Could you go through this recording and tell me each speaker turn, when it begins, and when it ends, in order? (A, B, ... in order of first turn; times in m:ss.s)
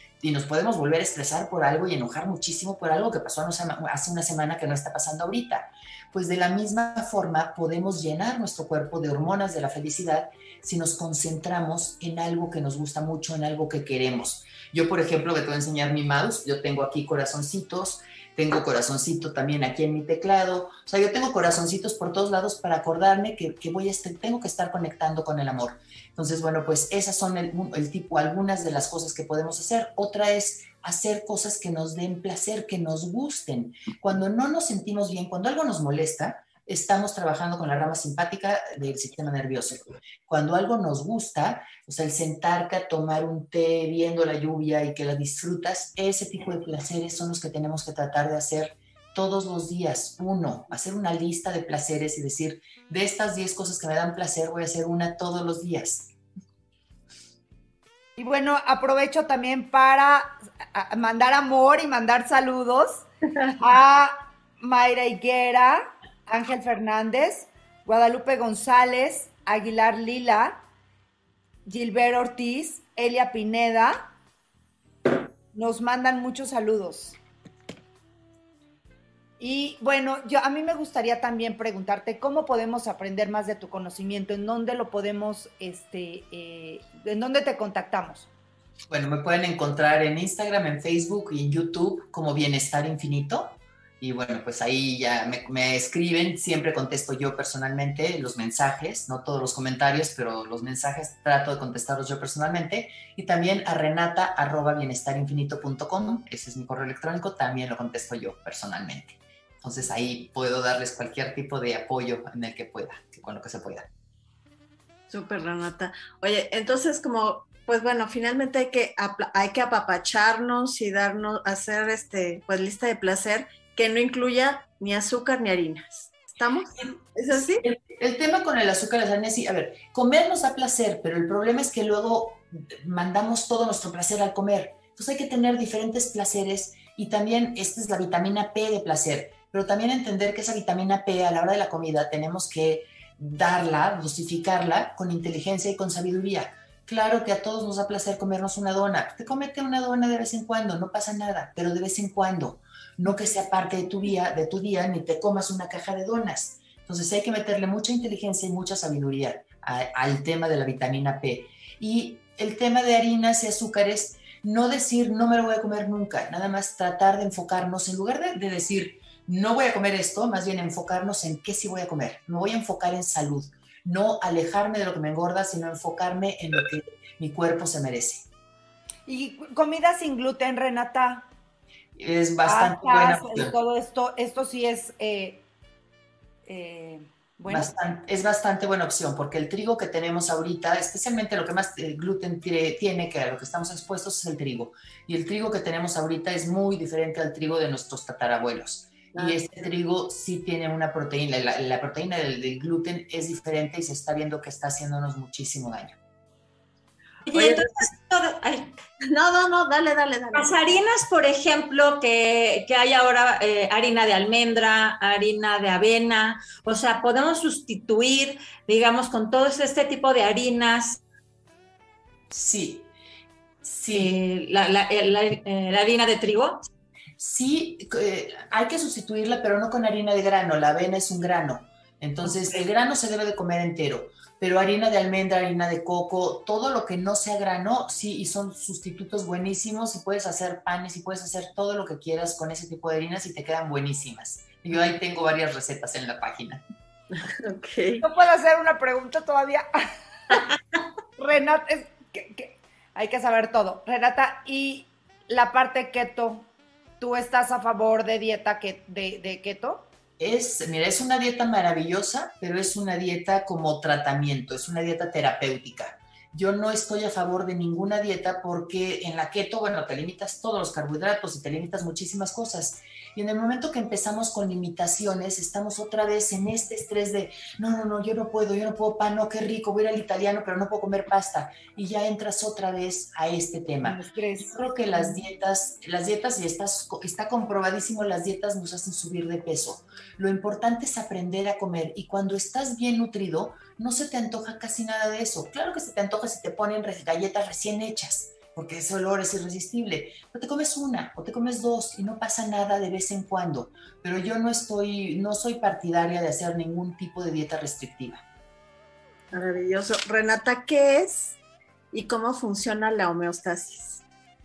0:00.2-0:56.1 A
0:58.2-1:03.0 B
1:03.6-1:10.6 B
1:11.6-1:14.1 B
1:15.5-1:17.2 B
1:19.4-1:28.3 B
1:28.9-1:53.9 A
1:55.1-2:07.6 C
2:07.6-2:58.2 A
2:59.0-3:01.3 B
3:02.0-3:03.5 A
3:02.4-3:05.4 B
3:06.4-3:07.7 B
3:07.5-3:26.0 A
3:27.3-3:28.8 D
3:27.3-3:27.7 C
3:29.0-3:30.6 C
3:30.3-3:41.0 D
3:42.3-3:42.9 A
3:43.6-3:44.2 A
3:43.9-3:46.6 D
3:47.2-4:06.6 A
3:52.2-3:52.5 D
4:07.2-4:08.0 C
4:08.0-4:09.6 B
4:11.2-4:16.5 B
4:17.0-4:19.8 B
4:20.2-5:08.2 A
4:43.8-4:45.2 B
5:09.3-5:11.4 C
5:11.9-5:14.0 C